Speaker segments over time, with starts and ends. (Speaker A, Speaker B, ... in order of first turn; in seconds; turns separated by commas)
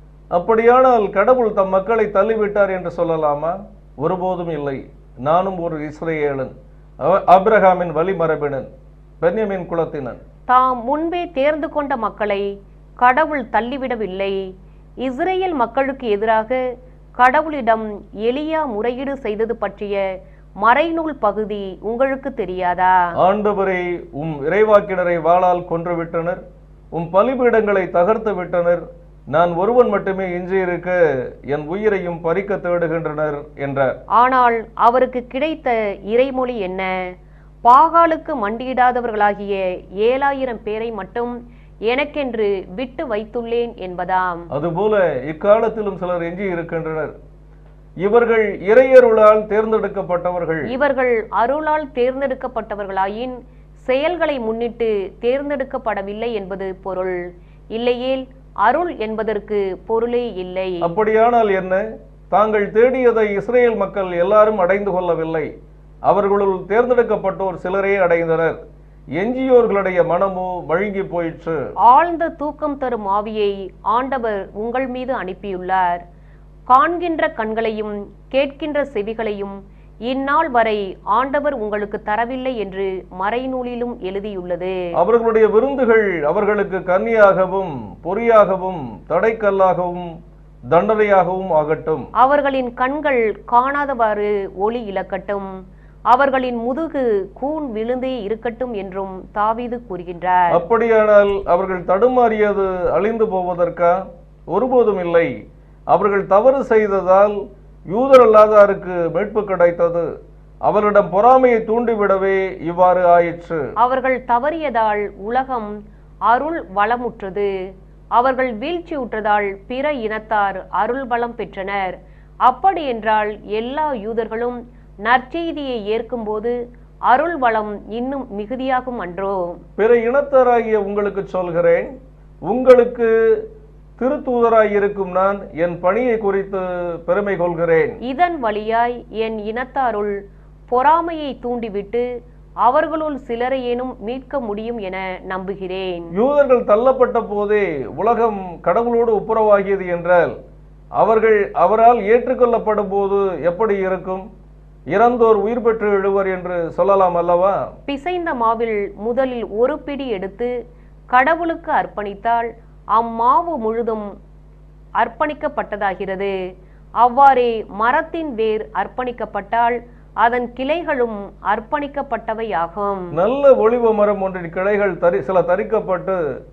Speaker A: 0.3-6.5, Speaker A: 7.0-8.7, Speaker A: 9.2-10.2, Speaker B: 10.5-12.5, Speaker B: 13.0-14.4, Speaker B: 15.0-16.6, Speaker B: 17.2-20.0, Speaker B: 20.6-23.1, Speaker A: 23.2-26.4, Speaker A: 26.9-31.0, Speaker A: 31.5-33.9, Speaker B: 34.2-36.9, Speaker B: 37.6-44.5, Speaker A: 44.5-47.1, Speaker A: 48.0-50.6, Speaker B: 50.7-57.2, Speaker B: 57.7-60.9, Speaker A: 60.8-65.5, Speaker A: 66.1-68.6, Speaker A: 69.2-71.5, Speaker B: 71.8-76.0, Speaker B: 76.7-84.8, Speaker A: 85.0-90.1, Speaker A: 90.7-92.0, Speaker B: 92.2-95.5, Speaker B: 96.1-100.5, Speaker A: 100.5-104.0, Speaker A: 104.5-105.3, Speaker A: 105.9-107.3, Speaker A: 107.9-110.0, Speaker A: 110.6-113.6, Speaker B: 113.8-115.7, Speaker B: 116.3-117.5, Speaker B: 118.2-129.6, Speaker A: 129.8-131.9, Speaker A: 132.5-133.1, Speaker A: 134.0-137.9, Speaker B: 138.1-140.2, Speaker B: 140.7-142.1, Speaker B: 142.6-146.1, Speaker A: 146.2-150.3, Speaker A: 151.0-154.2, Speaker A: 154.9-157.6, Speaker B: 157.9-160.5, Speaker B: 161.1-164.1, Speaker B: 165.0-166.3, Speaker B: 167.0-173.1, Speaker A: 173.2-176.2